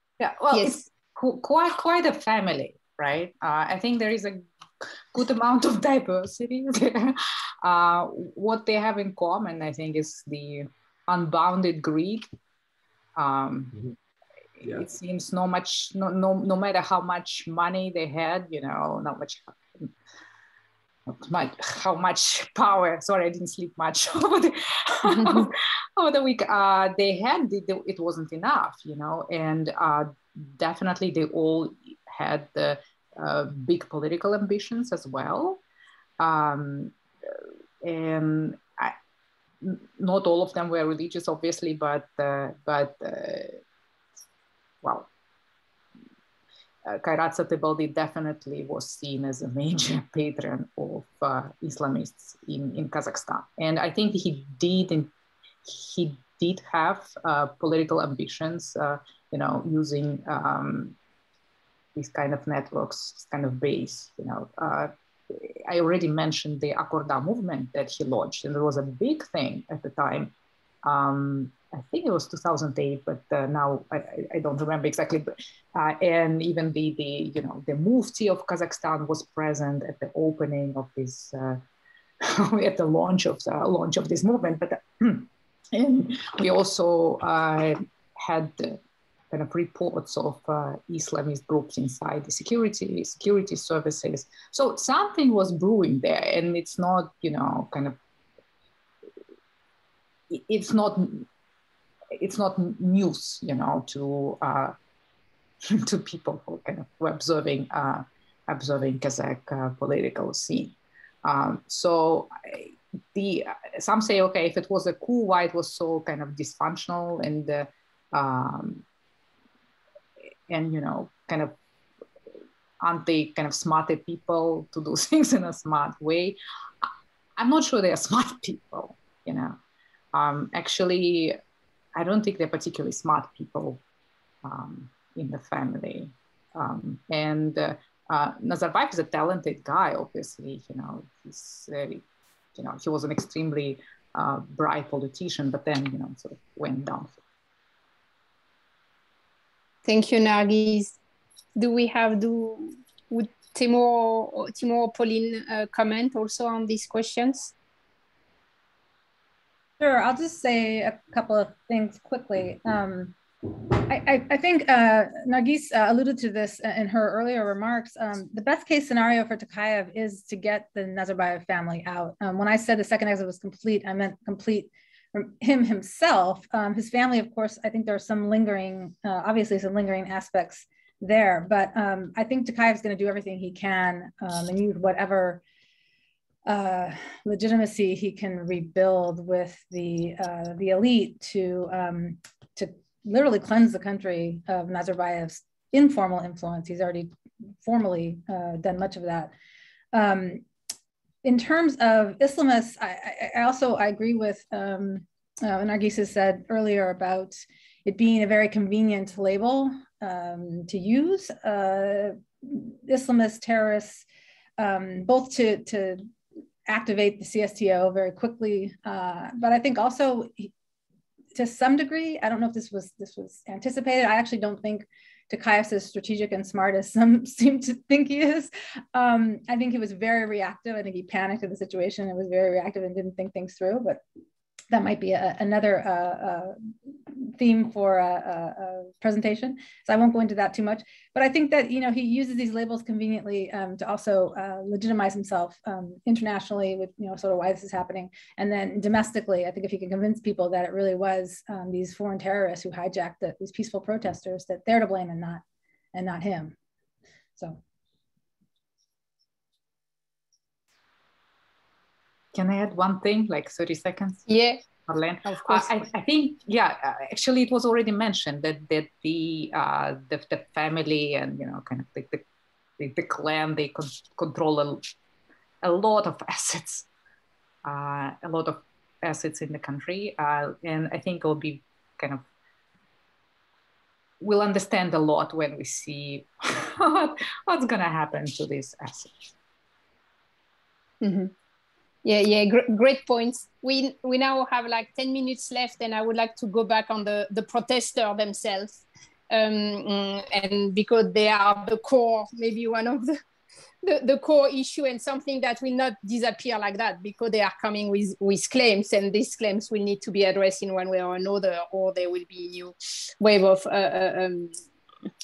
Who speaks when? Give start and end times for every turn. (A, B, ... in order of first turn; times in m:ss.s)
0:00.2-0:12.2 A
0:00.5-0:00.8 B
0:13.2-0:13.8 A
0:14.6-0:19.9 A
0:21.1-0:35.6 A
0:25.1-0:25.5 B
0:36.2-0:39.0 A
0:39.6-0:43.6 A
0:44.8-0:45.1 A
0:46.8-0:55.1 A
0:55.6-1:01.0 A
1:02.0-1:21.6 A
1:22.2-1:28.8 A
1:29.3-1:38.0 A
1:40.3-1:41.3 A
1:42.1-1:44.7 A
1:45.6-1:58.8 A
2:00.5-2:01.5 A
2:02.8-2:09.6 A
2:10.1-2:11.4 A
2:12.0-2:13.8 A
2:14.4-2:27.2 A
2:29.8-2:31.0 B
2:31.6-2:37.5 B
2:39.8-3:05.4 C
3:06.4-3:17.1 C
3:17.6-3:19.3 C
3:19.9-3:20.4 C
3:21.2-3:34.0 C
3:34.6-3:36.0 C
3:36.7-3:40.5 C
3:41.3-3:54.0 C
3:54.7-4:15.4 C
4:15.9-4:16.6 C
4:22.3-4:24.2 A
4:24.3-4:24.6 B
4:24.8-4:32.2 A
4:25.2-4:25.8 B
4:32.8-4:34.9 A
4:35.6-4:36.9 A
4:37.6-4:42.2 A
4:44.2-4:49.3 A
4:51.0-4:51.3 B
4:52.0-5:03.2 B
5:03.8-5:14.5 B